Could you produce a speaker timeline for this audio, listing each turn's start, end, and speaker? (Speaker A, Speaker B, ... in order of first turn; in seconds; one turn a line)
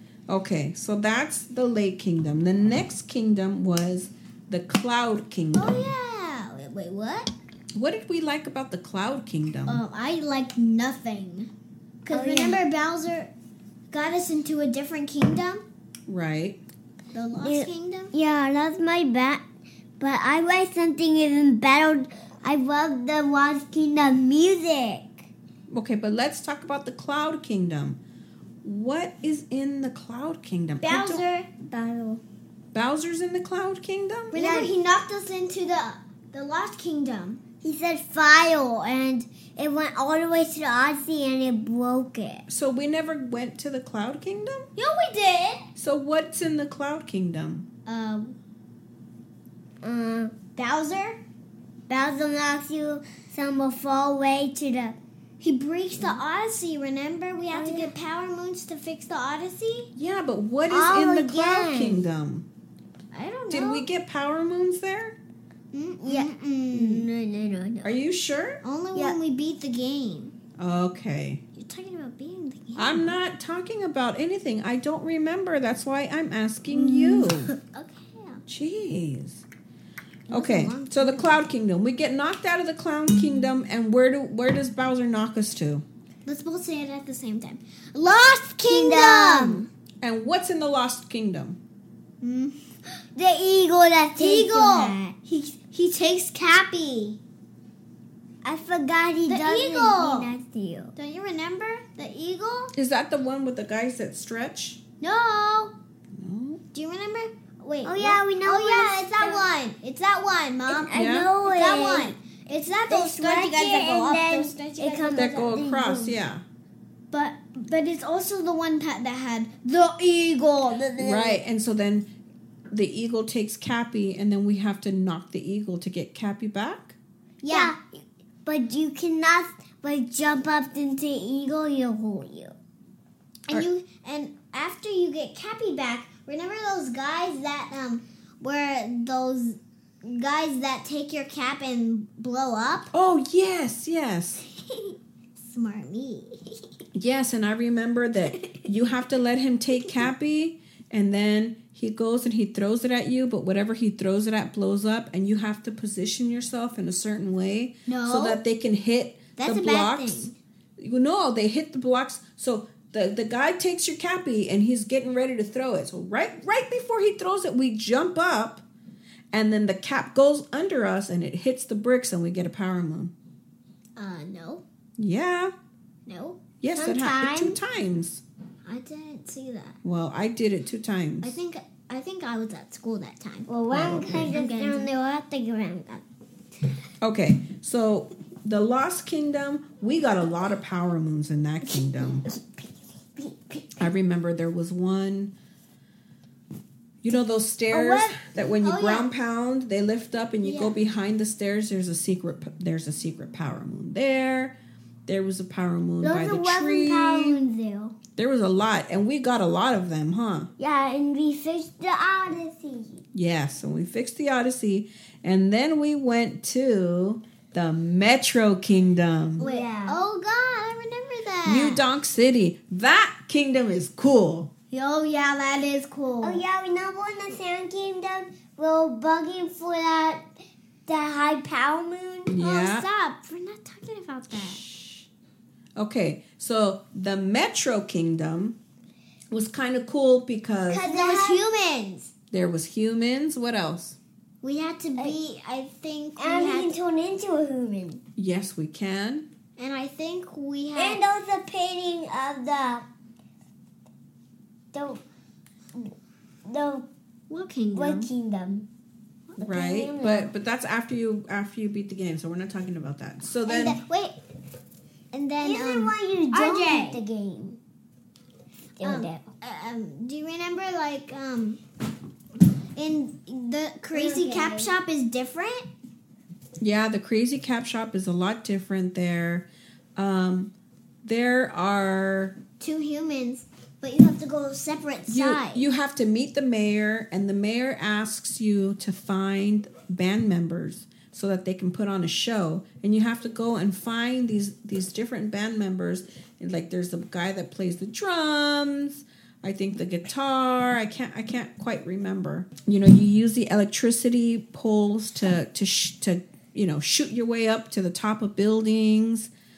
Speaker A: 0.3-5.8
Speaker B: 5.5-7.3
Speaker A: 7.7-9.8
Speaker B: 9.7-11.5
Speaker B: 12.1-13.3
Speaker C: 12.1-12.6
Speaker B: 13.9-15.6
Speaker A: 16.1-16.6
Speaker B: 17.1-18.1
Speaker C: 17.4-19.4
Speaker C: 20.0-25.2
Speaker A: 25.7-28.0
Speaker A: 28.6-31.2
Speaker B: 30.8-31.5
Speaker C: 31.6-32.2
Speaker A: 32.7-34.4
Speaker B: 34.3-37.4
Speaker C: 34.3-34.7
Speaker C: 37.6-42.5
Speaker A: 42.5-44.7
Speaker B: 44.8-45.7
Speaker A: 45.8-47.7
Speaker B: 47.9-48.4
Speaker C: 49.8-50.4
Speaker B: 50.6-51.2
Speaker C: 51.9-55.0
Speaker B: 55.4-59.9
Speaker C: 57.5-57.9
Speaker A: 60.0-62.5
Speaker C: 60.7-62.0
Speaker B: 63.1-63.9
Speaker A: 63.5-65.2
Speaker B: 65.7-67.1
Speaker C: 66.0-68.0
Speaker A: 67.8-68.6
Speaker B: 68.6-70.3
Speaker A: 70.6-71.4
Speaker B: 71.6-73.1
Speaker A: 72.8-77.5
Speaker C: 76.7-77.6
Speaker B: 77.6-78.4
Speaker A: 78.5-79.4
Speaker B: 80.3-81.4
Speaker A: 80.3-85.8
Speaker B: 86.3-89.7
Speaker C: 88.7-89.7
Speaker A: 90.0-91.6
Speaker B: 92.2-92.6
Speaker C: 93.2-95.1
Speaker B: 94.2-97.2
Speaker C: 98.4-100.9
Speaker B: 99.3-100.3
Speaker B: 101.0-102.7
Speaker A: 102.8-104.8
Speaker B: 105.0-105.7
Speaker A: 106.2-106.6
Speaker B: 106.7-115.5
Speaker C: 107.8-109.5
Speaker C: 110.7-112.2
Speaker A: 110.9-111.3
Speaker C: 112.9-116.2
Speaker A: 115.1-116.4
Speaker B: 117.1-121.4
Speaker A: 121.0-122.1
Speaker A: 122.7-127.0
Speaker B: 127.4-127.8
Speaker C: 127.5-127.8
Speaker C: 128.4-132.5
Speaker B: 133.5-142.9
Speaker A: 142.9-144.4
Speaker B: 144.6-146.7
Speaker A: 146.9-168.6
Speaker B: 157.9-158.4
Speaker B: 159.4-160.3
Speaker A: 169.3-173.1
Speaker B: 174.0-174.6
Speaker A: 175.0-175.5
Speaker B: 176.1-176.4
Speaker A: 176.6-178.2
Speaker C: 176.8-177.6
Speaker B: 178.7-179.8
Speaker A: 179.8-181.4
Speaker B: 181.2-183.5
Speaker C: 183.5-186.0
Speaker A: 183.7-184.3
Speaker B: 184.3-184.9
Speaker A: 187.0-192.2
Speaker C: 192.2-193.8
Speaker A: 193.8-195.3
Speaker A: 197.0-204.6
Speaker C: 197.7-198.1
Speaker B: 198.6-199.1
Speaker B: 200.4-200.8
Speaker A: 205.1-207.4
Speaker C: 206.0-208.0
Speaker A: 208.2-210.5
Speaker C: 210.6-213.0
Speaker A: 213.1-219.5
Speaker C: 219.4-220.0
Speaker B: 219.4-221.8
Speaker A: 221.4-224.5
Speaker B: 224.7-226.4
Speaker C: 226.2-230.3
Speaker C: 230.9-232.4
Speaker A: 232.3-232.9
Speaker B: 232.4-234.6
Speaker A: 234.3-235.1
Speaker A: 235.8-238.6
Speaker A: 239.3-240.9
Speaker C: 240.7-241.4
Speaker B: 240.8-242.1
Speaker A: 242.3-244.0
Speaker B: 244.4-246.7
Speaker C: 246.2-248.0
Speaker A: 248.2-249.3
Speaker B: 249.6-251.0
Speaker C: 250.8-252.9
Speaker C: 254.7-255.0
Speaker C: 256.5-256.9
Speaker B: 257.3-258.1
Speaker C: 257.8-258.7
Speaker C: 259.4-260.3
Speaker A: 259.4-263.8
Speaker B: 263.5-264.2
Speaker B: 265.1-267.0
Speaker C: 265.4-267.6
Speaker C: 268.8-269.2
Speaker B: 268.8-271.6
Speaker B: 272.8-275.7
Speaker C: 273.9-274.7
Speaker A: 276.6-280.5
Speaker A: 281.0-282.4
Speaker B: 282.6-285.7
Speaker A: 285.1-309.3